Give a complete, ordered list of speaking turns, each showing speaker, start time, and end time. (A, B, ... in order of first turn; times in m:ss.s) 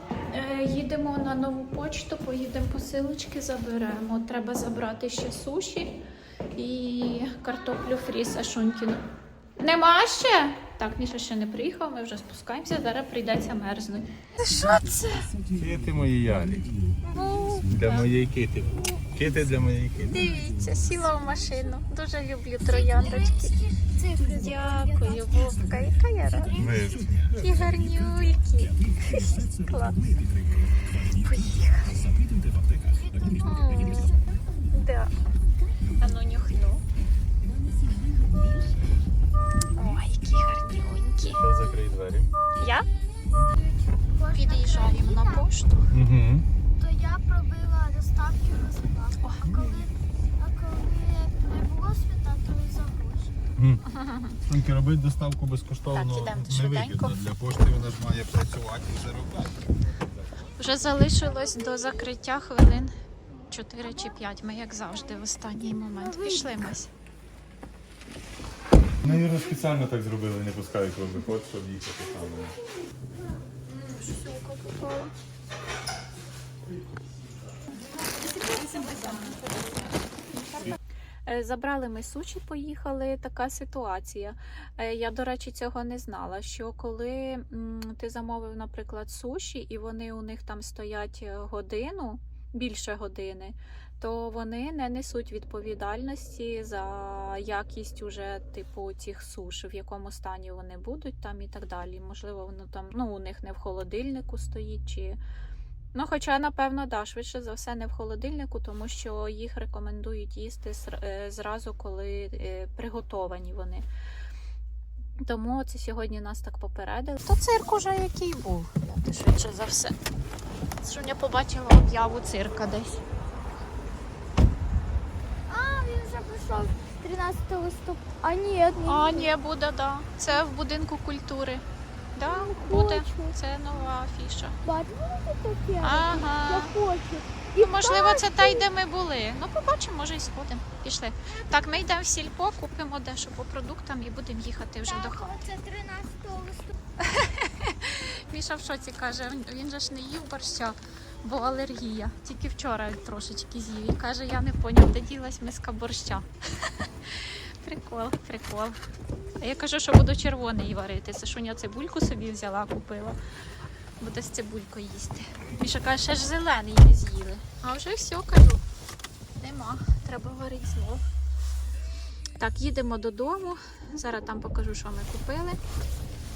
0:00.3-0:06.0 A
0:06.5-0:09.0 A
0:09.6-0:15.3 A
0:15.5-0:16.7 B
0:17.1-0:18.1 A
0:17.7-0:20.3 B
0:20.1-0:23.6 A
0:22.6-0:25.6 C
0:24.2-0:26.7 A
0:26.5-0:27.3 B
0:27.4-0:30.0 A
0:31.2-0:32.1 A
0:32.9-0:34.3 C
0:33.4-0:34.1 A
0:34.7-0:35.1 A
0:36.0-0:36.8 A
0:39.8-0:41.4 A
0:41.4-0:42.3 B
0:42.6-0:42.9 A
0:43.5-0:45.5 C
0:44.3-0:45.9 A
0:45.9-0:46.5 B
0:46.8-0:53.4 C
0:49.2-0:49.6 A
0:49.5-0:49.7 B
0:53.6-0:53.8 B
0:53.9-0:54.4 A
0:54.5-1:00.7 B
0:55.9-0:57.2 A
1:00.6-1:02.9 A
1:00.6-1:02.1 C
1:03.5-1:06.9 A
1:03.8-1:04.3 C
1:04.8-1:06.7 C
1:09.0-1:12.5 B
1:13.7-1:15.1 A
1:16.7-1:17.1 B
1:17.9-1:45.2 A
1:45.9-1:53.9 A
1:55.2-2:00.0 A
2:00.8-2:03.0 A
2:05.5-2:09.3 C
2:08.8-2:14.6 A
2:12.2-2:13.4 C
2:14.6-2:18.6 C
2:15.8-2:16.7 A
2:17.6-2:25.3 A
2:24.8-2:26.8 C
2:27.0-2:36.3 A
2:37.1-2:38.8 A
2:39.4-2:43.2 A
2:44.0-2:48.6 A
2:49.4-2:51.0 A
2:52.4-2:55.6 A